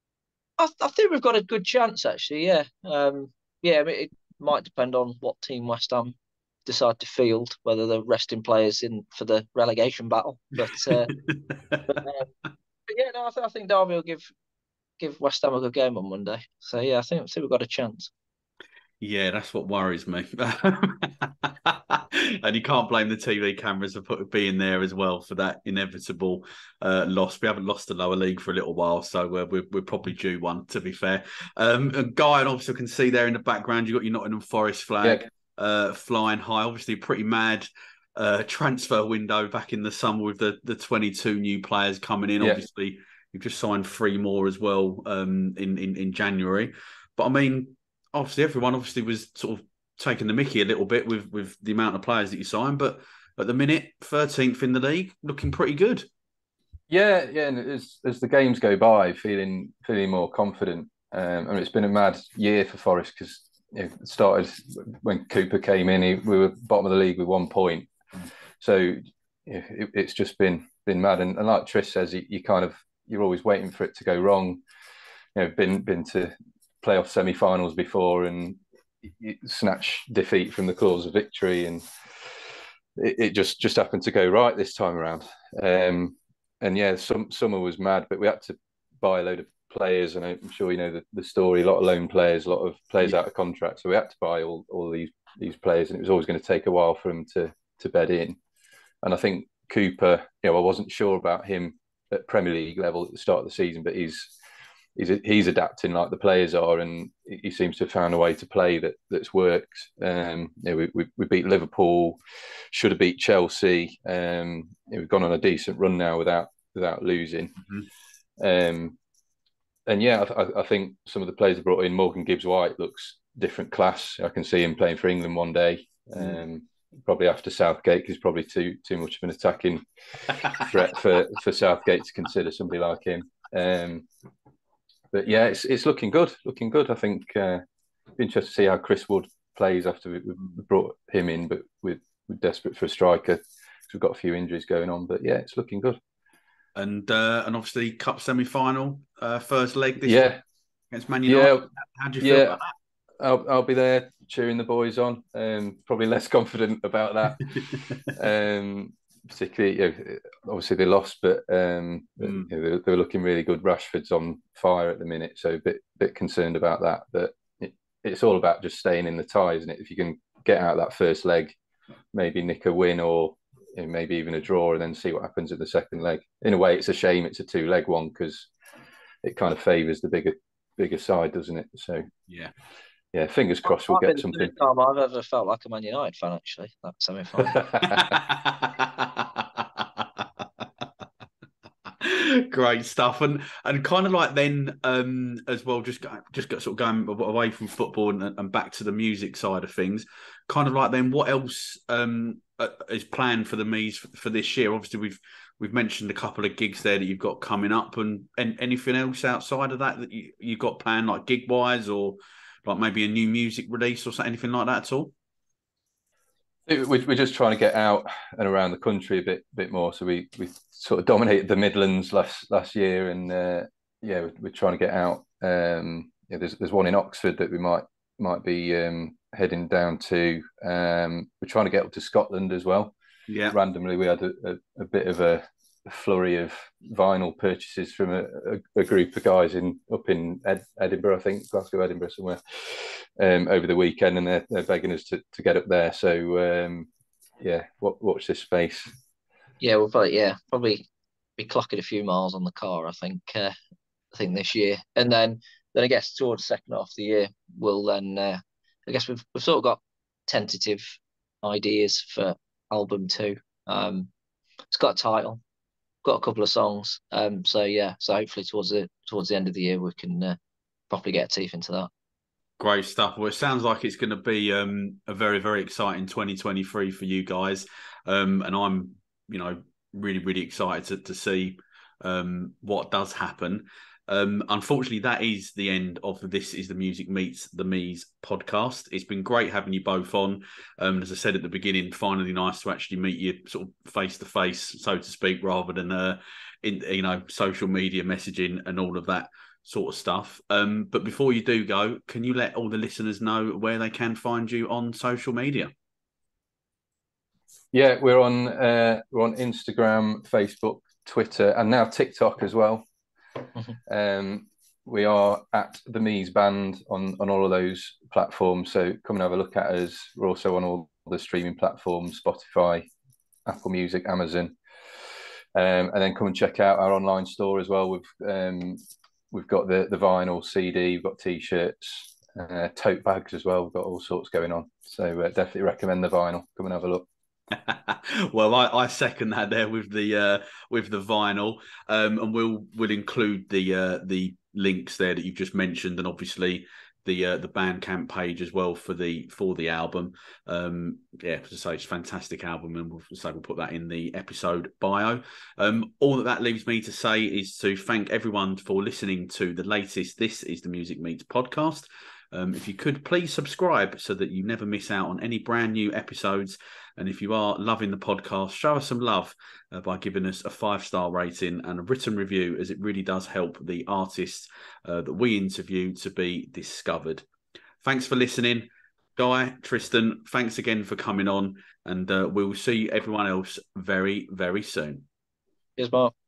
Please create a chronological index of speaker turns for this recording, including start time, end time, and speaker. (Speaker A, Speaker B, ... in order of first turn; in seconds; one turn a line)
Speaker A: 0.6-11.1
Speaker B: 10.8-11.9
Speaker A: 11.9-12.3
Speaker A: 12.9-14.3
Speaker A: 15.0-18.1
Speaker B: 19.0-56.0
Speaker C: 56.9-67.9
Speaker C: 68.6-74.6
Speaker C: 75.3-81.8
Speaker C: 83.0-98.4
Speaker C: 99.0-104.3
Speaker C: 105.0-112.2
Speaker C: 112.7-117.5
Speaker C: 118.4-119.0
Speaker C: 119.8-134.1
Speaker C: 135.1-137.6
Speaker C: 138.2-146.0
Speaker B: 146.8-150.3
Speaker C: 150.0-150.4
Speaker B: 150.9-152.7
Speaker C: 151.2-151.6
Speaker C: 152.2-152.6
Speaker C: 153.2-157.5
Speaker C: 158.1-171.6
Speaker B: 162.2-162.5
Speaker C: 172.1-178.5
Speaker C: 179.2-182.1
Speaker B: 182.3-182.5
Speaker C: 183.1-184.5
Speaker A: 183.7-187.8
Speaker B: 187.8-190.7
Speaker B: 191.8-215.1
Speaker C: 216.7-232.9
Speaker B: 233.3-233.6
Speaker C: 233.5-246.9
Speaker C: 247.4-248.9
Speaker A: 249.6-250.8
Speaker A: 251.4-253.5
Speaker A: 254.1-264.1
Speaker A: 264.7-265.4
Speaker A: 266.0-270.4
Speaker A: 270.9-271.9
Speaker B: 272.6-305.7
Speaker C: 307.7-312.8
Speaker C: 313.9-322.9
Speaker C: 323.4-324.6
Speaker C: 325.5-328.8
Speaker C: 329.3-337.1
Speaker B: 337.5-377.2
Speaker B: 377.8-385.1
Speaker A: 385.8-386.1